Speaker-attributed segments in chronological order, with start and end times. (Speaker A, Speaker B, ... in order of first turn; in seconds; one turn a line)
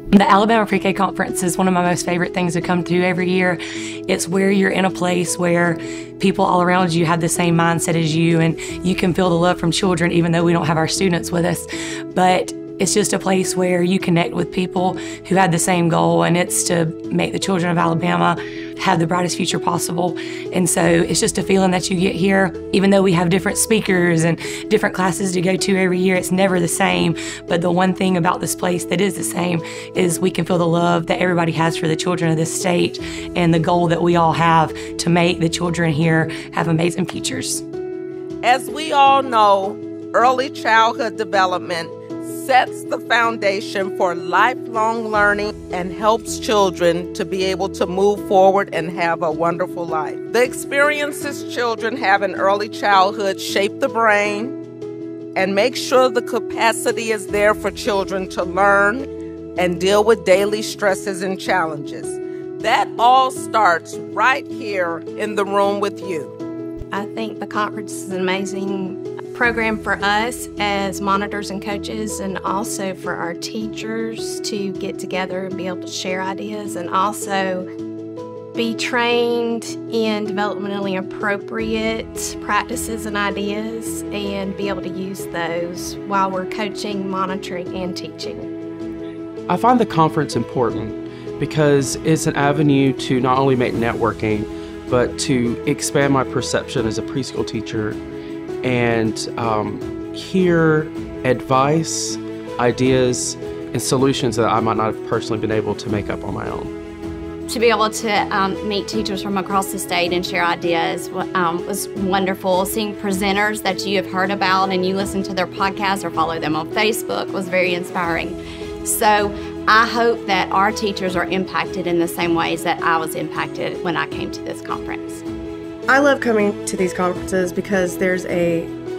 Speaker A: 0.1-37.6
Speaker B: 38.4-54.6
Speaker B: 55.4-66.3
Speaker C: 66.9-77.7
Speaker C: 78.5-88.5
Speaker D: 89.5-98.0
Speaker D: 98.6-106.7
Speaker E: 107.5-125.2
Speaker F: 125.9-128.7